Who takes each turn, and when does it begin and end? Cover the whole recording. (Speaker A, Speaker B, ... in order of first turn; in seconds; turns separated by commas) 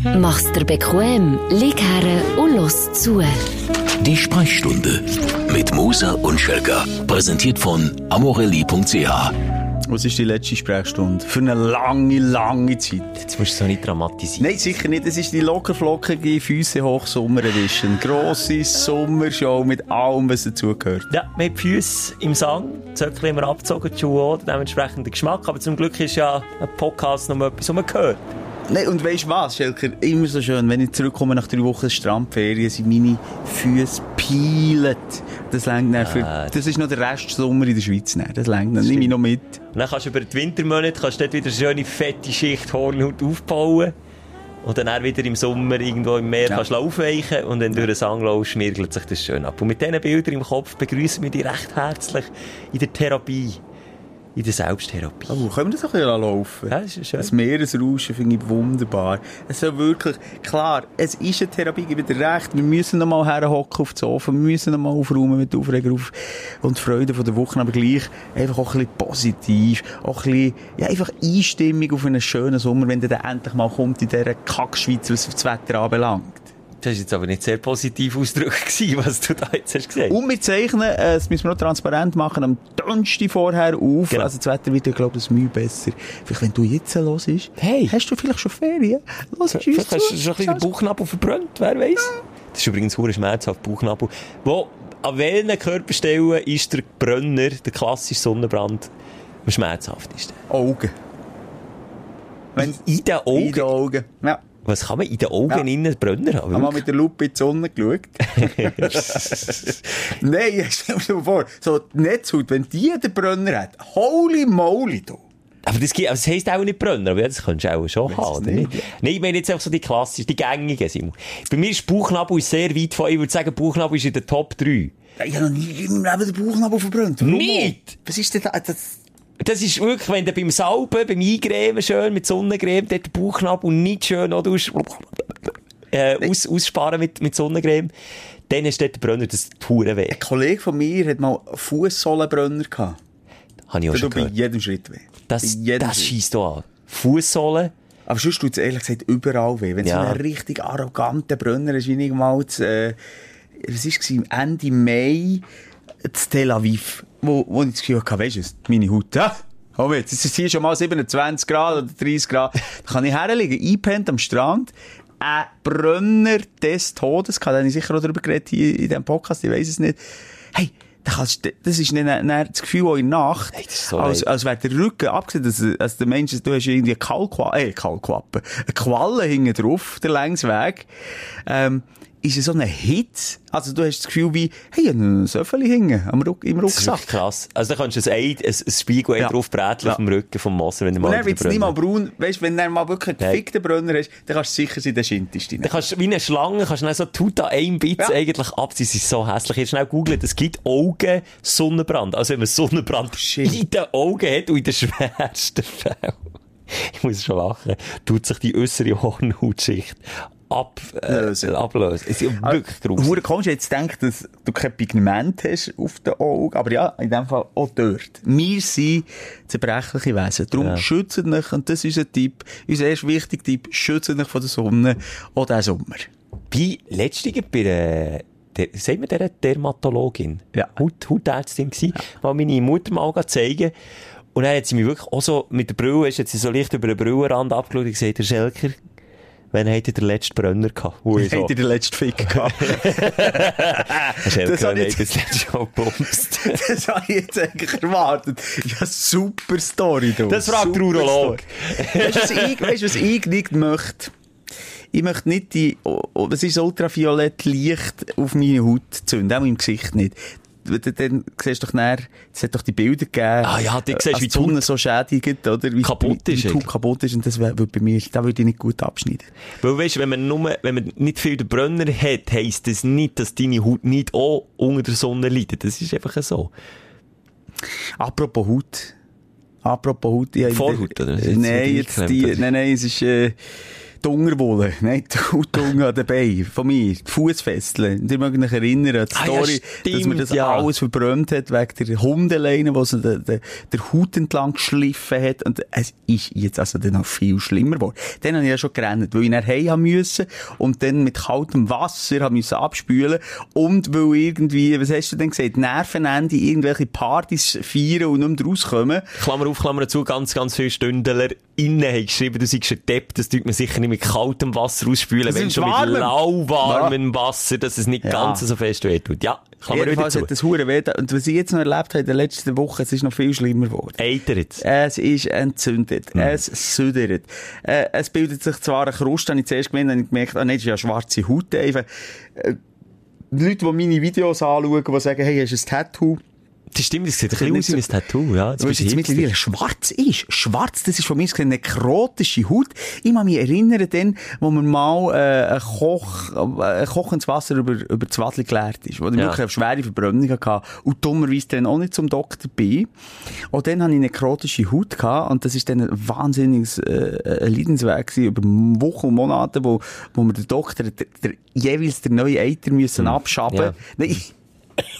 Speaker A: 0.1-3.5, Speaker B: 4.0-9.4, Speaker C: 9.9-13.2, Speaker D: 13.2-14.5, Speaker C: 14.4-21.1, Speaker D: 21.1-28.3, Speaker C: 28.7-39.6, Speaker D: 36.0-36.7, Speaker D: 38.8-39.1, Speaker D: 39.7-43.9, Speaker D: 44.6-53.6, Speaker D: 54.4-55.4, Speaker C: 55.3-76.5, Speaker D: 56.7-57.3, Speaker D: 76.8-80.2, Speaker C: 80.1-90.7, Speaker D: 87.6-88.0, Speaker D: 89.5-98.9, Speaker D: 99.5-100.4, Speaker C: 100.5-100.9, Speaker D: 102.6-103.7, Speaker C: 103.3-104.4, Speaker D: 104.7-106.8, Speaker C: 106.5-115.2, Speaker D: 108.4-109.7, Speaker D: 115.7-124.9, Speaker C: 118.1-118.9, Speaker C: 125.2-129.0, Speaker D: 127.2-128.0, Speaker D: 129.4-135.3, Speaker D: 135.9-137.9, Speaker D: 138.5-140.2, Speaker C: 140.1-143.0, Speaker D: 143.7-144.3, Speaker C: 143.9-146.1, Speaker D: 145.3-147.7, Speaker C: 148.1-153.0, Speaker D: 149.8-150.2, Speaker C: 153.6-155.4, Speaker C: 156.1-170.0, Speaker C: 170.5-180.9, Speaker D: 173.6-174.3, Speaker C: 181.5-187.1, Speaker D: 186.7-191.8, Speaker C: 189.2-190.0, Speaker C: 191.0-195.8, Speaker D: 195.6-213.2, Speaker C: 203.2-203.6, Speaker C: 211.1-211.6, Speaker C: 212.4-226.1, Speaker D: 220.6-220.8, Speaker D: 226.5-233.7, Speaker D: 234.3-238.8, Speaker D: 239.5-241.5, Speaker C: 241.2-245.1, Speaker D: 242.3-246.6, Speaker C: 246.4-254.1, Speaker D: 250.3-252.7, Speaker C: 254.9-269.3, Speaker D: 263.4-264.6, Speaker D: 265.8-266.7, Speaker D: 269.6-276.5, Speaker C: 278.0-278.9, Speaker C: 279.6-283.4, Speaker D: 280.5-282.4, Speaker C: 284.0-309.1, Speaker D: 289.1-290.7, Speaker D: 309.2-320.3, Speaker C: 315.2-317.0, Speaker C: 318.0-318.4, Speaker C: 319.7-324.0, Speaker D: 324.0-324.6, Speaker C: 324.6-332.6, Speaker C: 333.3-336.2, Speaker D: 336.7-339.3, Speaker C: 337.3-337.9, Speaker C: 338.6-352.9, Speaker C: 353.5-364.3, Speaker D: 363.0-363.8